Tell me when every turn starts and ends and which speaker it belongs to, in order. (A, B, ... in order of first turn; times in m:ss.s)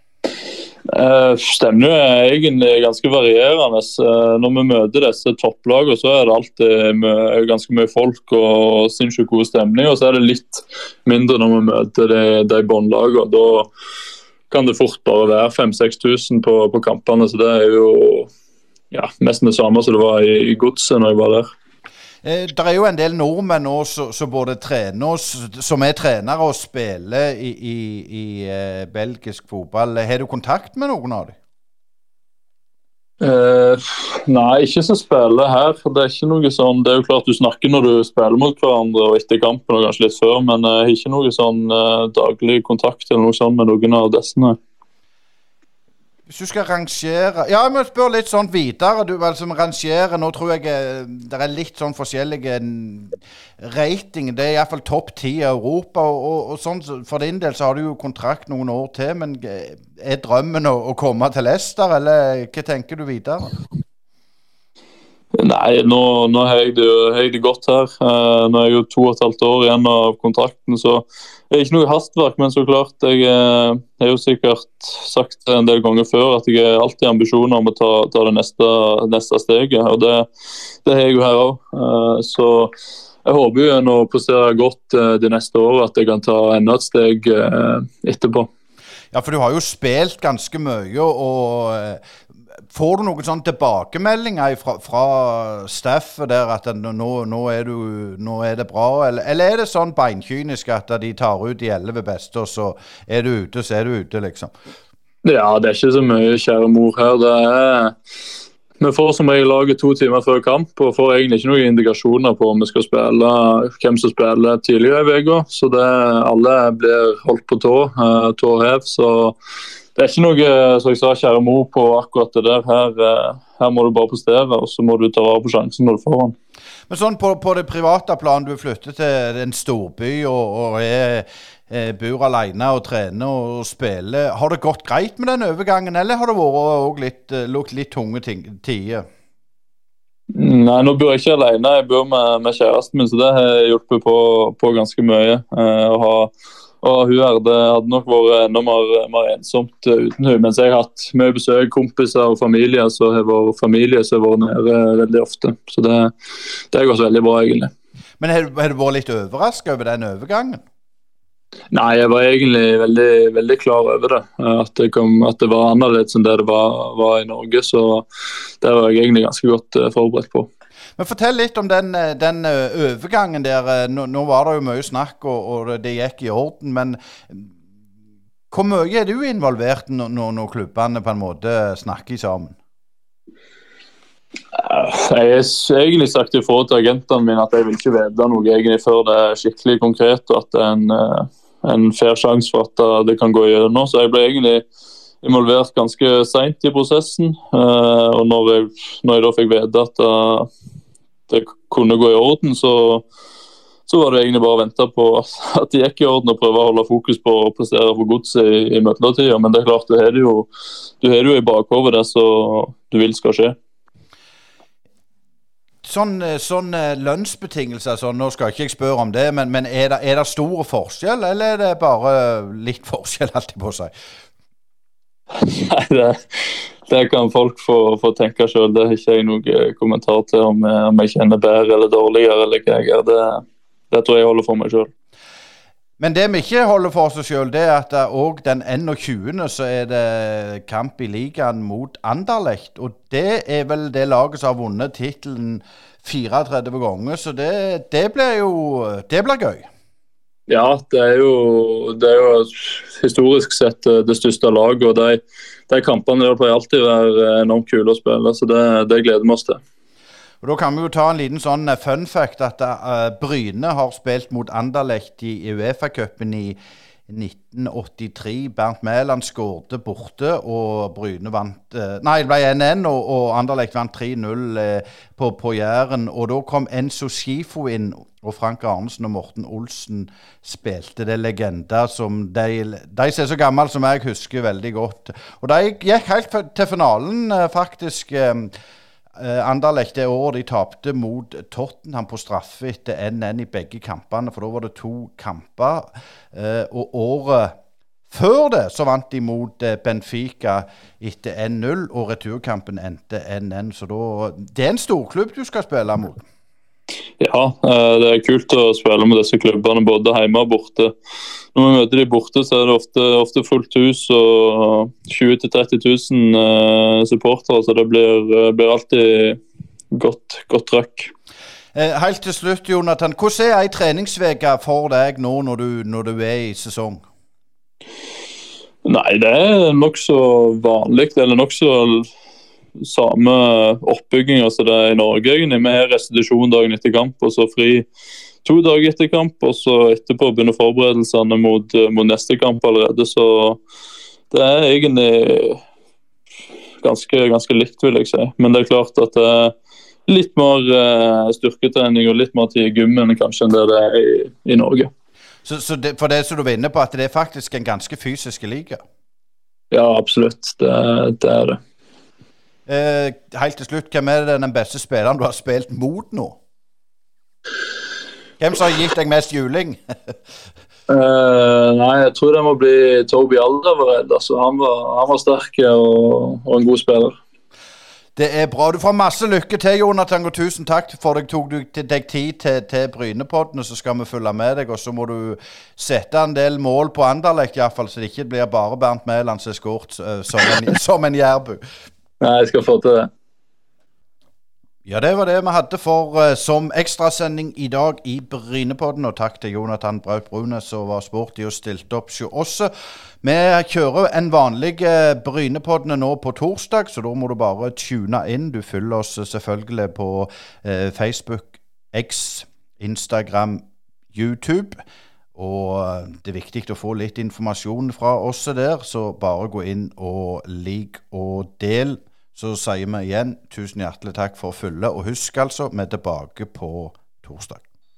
0:00.9-0:13.7 A
0:14.5-0:18.3 A
0:18.9-0:21.5 A
0:22.2-0:31.4 B
0:33.2-0:44.6 A
0:46.3-1:03.5 B
1:05.4-1:20.3 A
1:20.8-1:22.7 A
1:23.2-1:28.5 A
1:29.1-1:32.0 B
1:32.7-1:44.5 B
1:45.2-1:48.0 A
1:48.8-1:59.4 A
2:00.0-2:06.4 A
2:06.9-2:19.1 B
2:20.3-2:36.1 A
2:36.7-2:37.7 A
2:38.2-2:40.6 B
2:41.7-2:48.1 A
2:48.6-2:50.5 A
2:51.0-2:57.5 B
2:58.5-3:02.6 B
3:04.5-3:14.7 A
3:15.2-3:20.5 A
3:21.3-3:23.1 A
3:23.9-3:30.5 A
3:31.0-3:33.6 A
3:35.8-3:43.9 B
3:45.4-3:54.9 A
3:56.0-4:09.7 B
4:10.5-4:19.6 A
4:20.4-4:26.6 B
4:27.1-4:48.5 B
4:49.2-4:57.5 B
4:58.1-5:06.2 B
5:07.2-5:10.9 A
5:11.6-5:19.4 A
5:19.9-5:21.1 A
5:21.7-5:27.0 B
5:28.8-5:32.1 A
5:32.8-5:37.9 A
5:38.4-5:43.6 A
5:44.3-5:45.6 A
5:46.8-5:49.5 A
5:50.1-5:54.9 A
5:55.4-5:58.8 B
5:59.7-6:01.6 A
6:02.7-6:06.4 B
6:08.4-6:09.8 B
6:10.9-6:17.2 A
6:18.2-6:31.6 B
6:32.2-6:33.1 A
6:34.9-6:42.7 B
6:43.2-6:54.8 B
6:55.4-7:07.6 B